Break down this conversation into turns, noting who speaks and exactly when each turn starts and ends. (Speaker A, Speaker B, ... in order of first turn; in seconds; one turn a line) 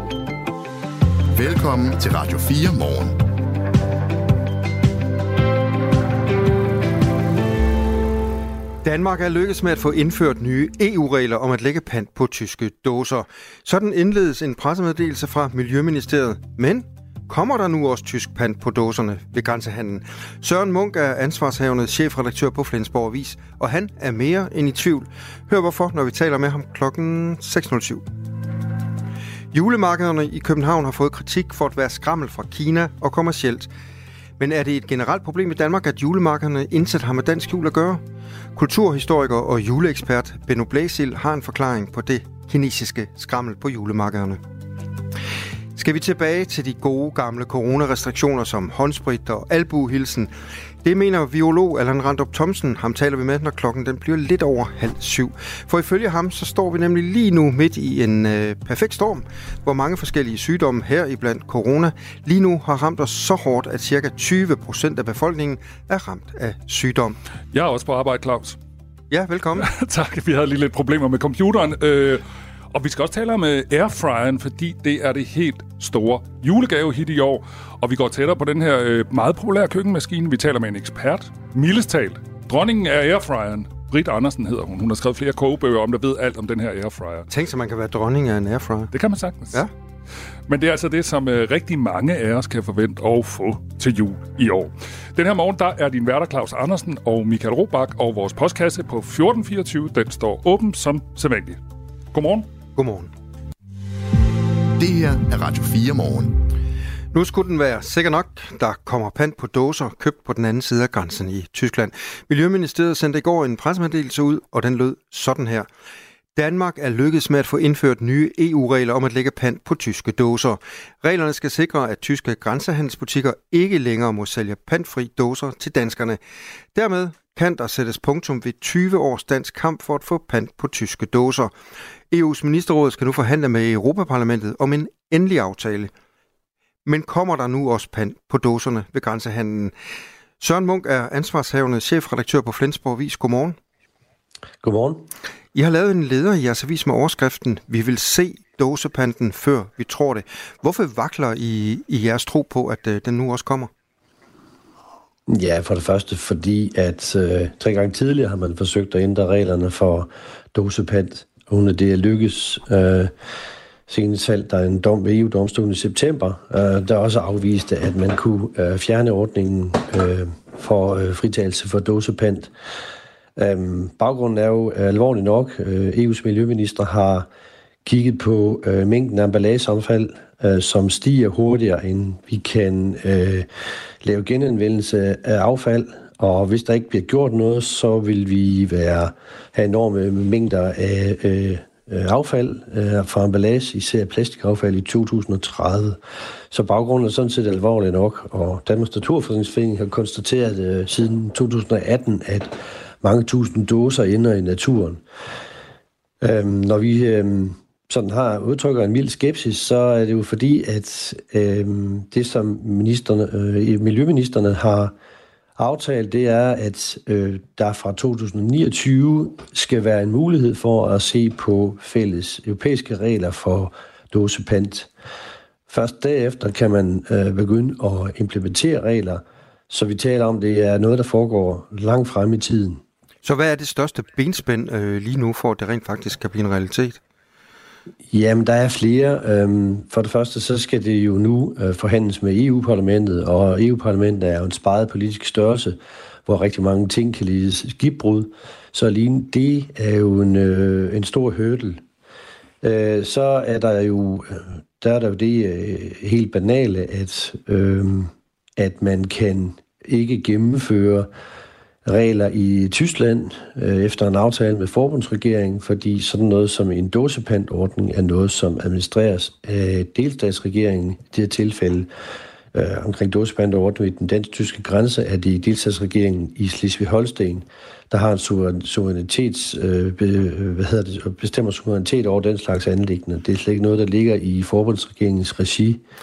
Speaker A: 1.3-3.2
Speaker B: 8.8-28.1
Speaker B: 29.5-33.7
Speaker B: 34.4-38.0
Speaker B: 38.5-44.4
Speaker B: 45.7-67.2
Speaker C: 67.5-68.6
Speaker B: 69.1-69.7
Speaker C: 69.6-87.3
Speaker B: 87.3-88.9
Speaker C: 88.9-89.6
Speaker C: 90.5-101.6
Speaker C: 102.1-102.5
Speaker B: 102.7-103.1
Speaker A: 104.8-106.4
Speaker B: 107.1-115.7
Speaker B: 116.3-126.2
Speaker B: 126.7-131.5
Speaker B: 132.1-135.9
Speaker B: 136.8-139.7
Speaker B: 140.4-143.6
Speaker D: 144.6-145.1
Speaker B: 145.5-153.7
Speaker D: 155.3-163.1
Speaker D: 163.9-172.5
Speaker D: 173.4-177.3
Speaker D: 177.8-183.5
Speaker D: 184.0-196.0
Speaker D: 196.5-205.0
Speaker D: 206.2-214.9
Speaker D: 215.6-224.9
Speaker D: 225.7-232.8
Speaker B: 233.2-237.0
Speaker D: 238.1-251.8
Speaker D: 252.6-261.1
Speaker D: 261.8-271.9
Speaker D: 272.5-285.8